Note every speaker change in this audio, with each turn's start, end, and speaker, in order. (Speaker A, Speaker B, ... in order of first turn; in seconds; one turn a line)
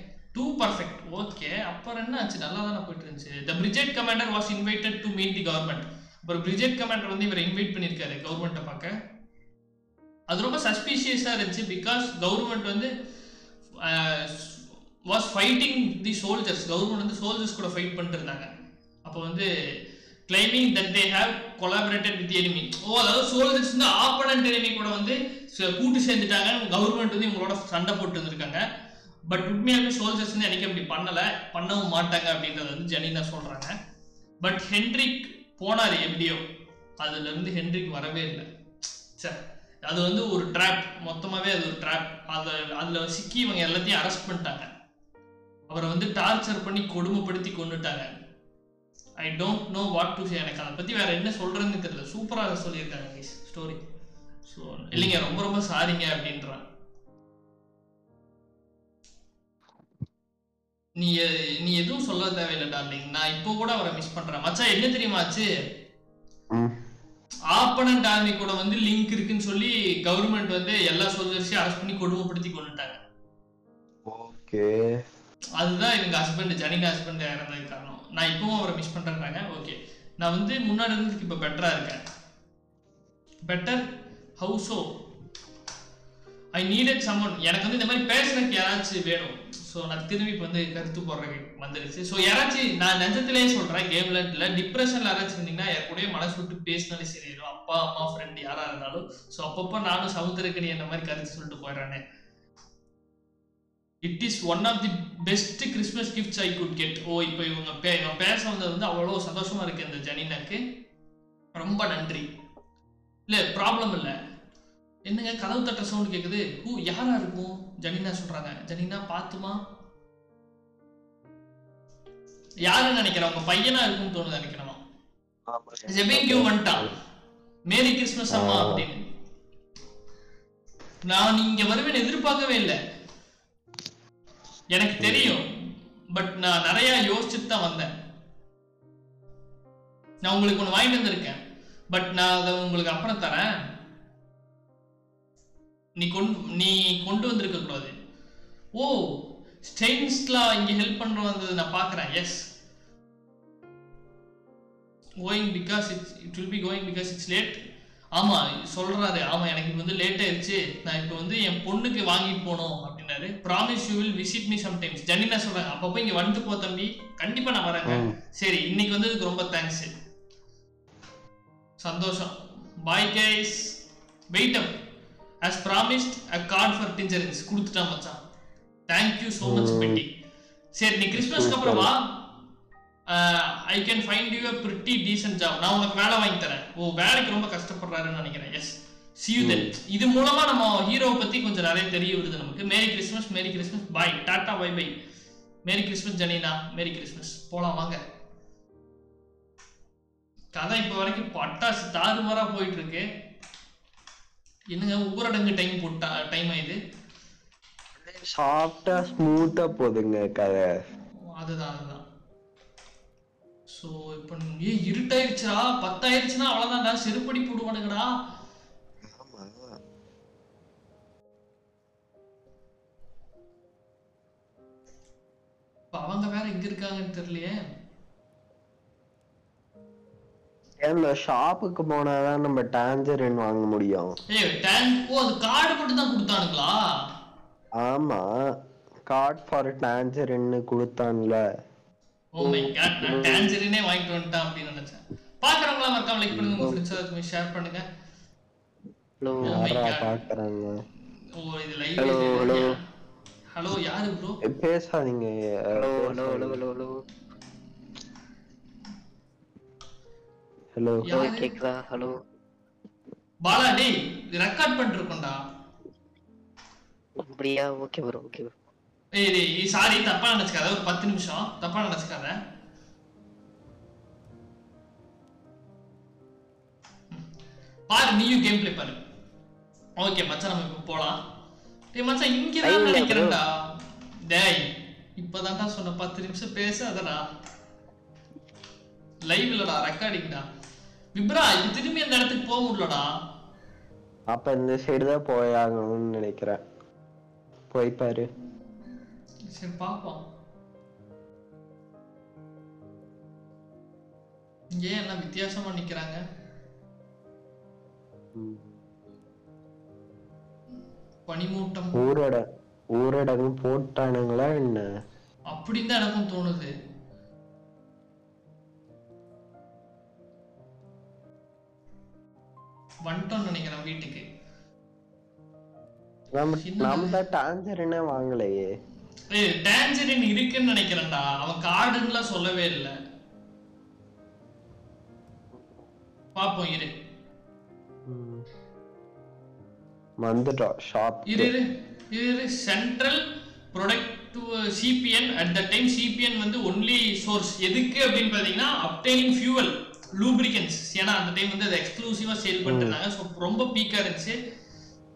Speaker A: 0.3-8.9
Speaker A: 10.3-12.9
Speaker A: 13.8-18.5
Speaker A: 19.1-19.5
Speaker A: 20.3-28.6
Speaker A: 29.3-33.7
Speaker A: 34.4-36.4
Speaker A: 37.0-38.5
Speaker A: 39.2-44.7
Speaker A: 45.7-48.1
Speaker A: 49.2-53.8
Speaker A: 54.5-56.6
Speaker A: 61.0-65.5
Speaker A: 67.5-73.0
Speaker B: 74.0-74.7
Speaker A: 75.6-82.0
Speaker A: 83.5-83.8
Speaker A: 84.4-84.9
Speaker A: 86.6-102.0
Speaker A: 104.0-110.6
Speaker A: 111.5-112.2
Speaker A: 113.3-114.1
Speaker A: 115.1-119.6
Speaker A: 122.7-124.8
Speaker B: 125.5-126.9
Speaker A: 125.9-126.9
Speaker A: 127.7-129.0
Speaker B: 128.3-128.8
Speaker A: 131.1-132.8
Speaker A: 134.7-135.4
Speaker B: 135.0-135.3
Speaker A: 136.1-137.9
Speaker A: 140.2-141.4
Speaker A: 141.9-143.5
Speaker A: 146.0-147.9
Speaker A: 148.8-152.4
Speaker A: 155.2-157.6
Speaker A: 158.2-169.9
Speaker B: 167.8-168.2
Speaker A: 171.8-172.3
Speaker A: 172.8-173.7
Speaker A: 174.3-174.7
Speaker A: 175.4-178.2
Speaker A: 178.9-180.1
Speaker B: 179.4-180.0
Speaker A: 180.8-182.2
Speaker B: 181.1-181.9
Speaker A: 183.1-194.9
Speaker B: 189.4-189.7
Speaker A: 195.7-198.0
Speaker A: 200.6-203.0
Speaker A: 204.7-206.8
Speaker B: 208.0-210.6
Speaker A: 211.4-212.0
Speaker A: 213.7-218.1
Speaker B: 219.0-219.8
Speaker A: 225.9-227.6
Speaker B: 230.8-234.2
Speaker A: 234.3-236.8
Speaker B: 237.8-238.3
Speaker B: 239.1-241.4
Speaker A: 242.3-247.8
Speaker B: 243.0-243.5
Speaker C: 249.2-249.7
Speaker B: 249.4-250.8
Speaker A: 249.4-250.2
Speaker A: 251.4-252.8
Speaker C: 252.0-252.8
Speaker B: 252.1-252.6
Speaker A: 253.5-254.4
Speaker B: 254.4-256.6
Speaker C: 255.7-257.0
Speaker B: 260.8-261.2
Speaker A: 261.0-261.6
Speaker C: 261.1-262.1
Speaker A: 263.4-265.4
Speaker C: 267.2-268.5
Speaker A: 269.1-272.3
Speaker A: 277.9-279.0
Speaker A: 280.0-281.2
Speaker A: 281.9-283.5
Speaker C: 282.6-283.4
Speaker A: 284.3-287.2
Speaker A: 289.3-290.4
Speaker A: 291.1-293.1
Speaker B: 294.3-296.6
Speaker B: 297.7-298.3
Speaker A: 299.5-300.2
Speaker A: 304.8-306.2
Speaker B: 308.3-308.6
Speaker A: 311.3-312.1
Speaker B: 311.9-312.4
Speaker B: 312.9-314.9
Speaker A: 315.5-316.7
Speaker A: 323.1-324.2
Speaker B: 326.3-328.7
Speaker A: 326.6-327.2
Speaker A: 329.3-332.9
Speaker A: 336.4-336.9
Speaker B: 338.1-338.4
Speaker B: 340.2-341.5
Speaker A: 341.3-343.2
Speaker A: 343.7-354.4
Speaker B: 352.6-352.9